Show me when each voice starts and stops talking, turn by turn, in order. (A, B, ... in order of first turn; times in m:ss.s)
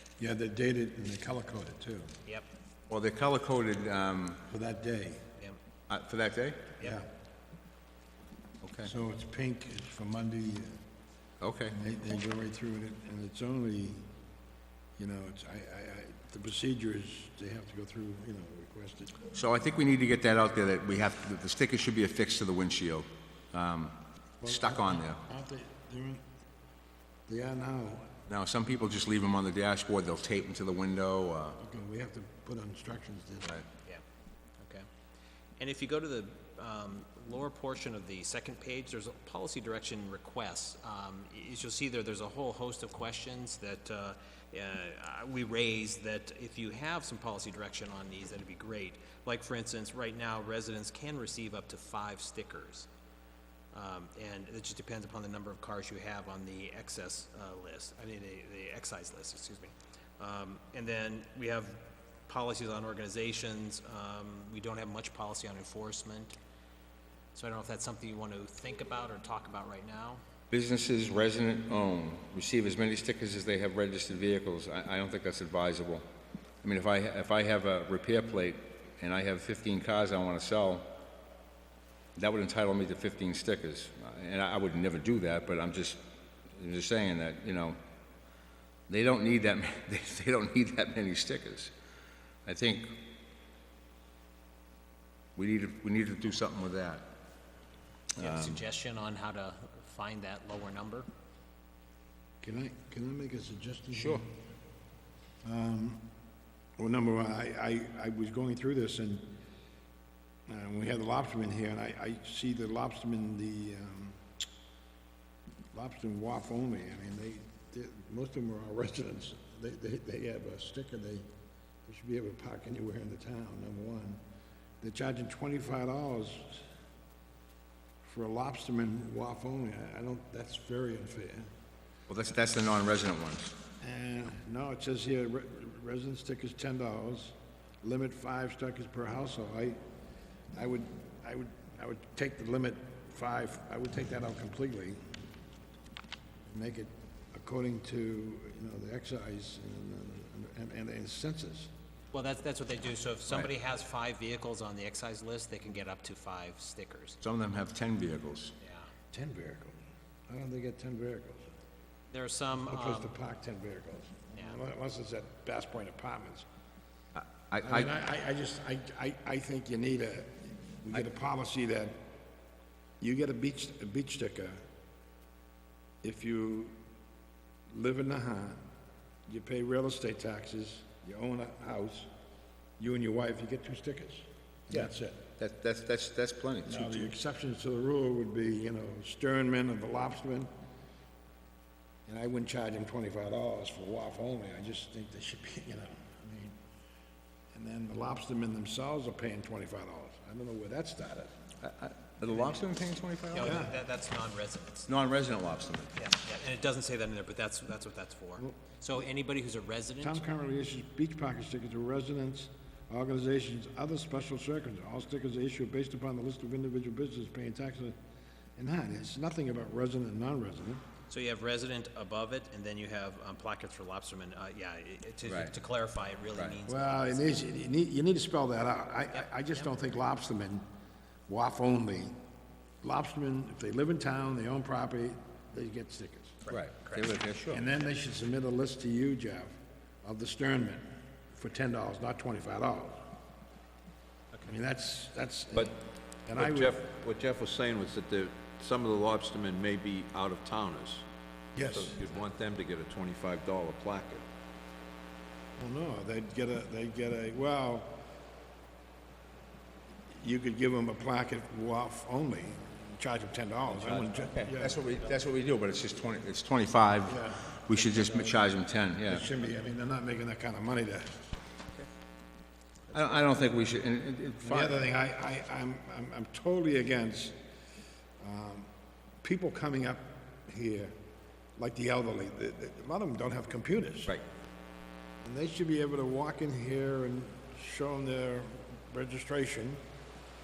0:00.2-0:02.1 A
0:02.9-0:04.4 B
0:04.5-0:05.3 A
0:05.9-0:06.7 B
0:06.8-0:07.1 A
0:08.6-0:08.9 B
0:08.8-0:10.8 A
0:11.4-0:11.8 B
0:11.7-0:14.1 A
0:15.0-0:19.2 A
0:19.3-0:25.2 B
0:24.4-0:26.2 A
0:27.3-0:28.2 A
0:28.3-0:31.6 B
0:31.6-0:33.6 A
0:34.6-0:34.9 C
0:35.6-0:52.9 C
0:53.7-1:06.4 C
1:07.4-1:10.2 C
1:10.5-1:16.0 B
1:16.6-1:20.9 B
1:22.2-1:26.0 B
1:26.6-1:27.8 B
1:28.9-1:31.7 B
1:32.5-1:33.0 B
1:35.4-1:37.1 B
1:38.2-1:38.6 B
1:38.2-1:41.1 C
1:42.4-1:44.3 A
1:43.9-1:44.2 B
1:45.4-1:46.0 A
1:46.8-1:49.3 A
1:50.5-1:54.2 A
1:55.7-2:01.3 A
2:01.8-2:04.2 A
2:04.8-2:06.6 A
2:08.0-2:11.5 A
2:12.1-2:13.6 B
2:13.8-2:19.8 A
2:20.5-2:25.0 A
2:26.5-2:31.7 A
2:32.1-2:37.2 C
2:37.2-2:38.5 B
2:38.6-2:38.9 C
2:39.1-2:39.8 A
2:40.3-2:41.5 A
2:42.1-2:43.1 C
2:42.6-2:46.5 A
2:47.2-2:47.9 B
2:47.6-2:52.0 A
2:53.0-2:54.6 A
2:56.0-2:56.8 A
2:57.7-2:58.6 A
2:59.3-3:02.1 A
3:02.8-3:05.2 A
3:04.7-3:07.1 B
3:06.7-3:10.5 A
3:12.1-3:16.6 A
3:17.5-3:21.4 A
3:21.6-3:23.6 B
3:23.3-3:24.9 C
3:23.4-3:23.7 A
3:24.9-3:26.0 B
3:26.0-3:30.2 C
3:30.0-3:38.0 A
3:38.6-3:40.8 A
3:41.1-3:47.4 C
3:45.3-3:45.5 B
3:46.7-3:50.6 A
3:49.1-3:49.7 C
3:51.3-3:52.1 A
3:52.8-3:56.4 A
3:56.4-3:57.2 C
3:56.5-3:57.6 B
3:57.5-4:00.8 A
4:01.3-4:03.1 A
4:04.5-4:06.8 A
4:06.4-4:11.0 D
4:11.6-4:12.0 A
4:11.7-4:14.2 D
4:15.6-4:18.0 A
4:20.2-4:24.8 A
4:23.7-4:29.3 B
4:27.1-4:28.3 A
4:29.1-4:31.2 A
4:32.9-4:34.8 B
4:34.4-4:37.4 A
4:38.2-4:38.7 A
4:39.2-4:40.9 A
4:41.6-4:44.2 A
4:45.2-4:49.8 A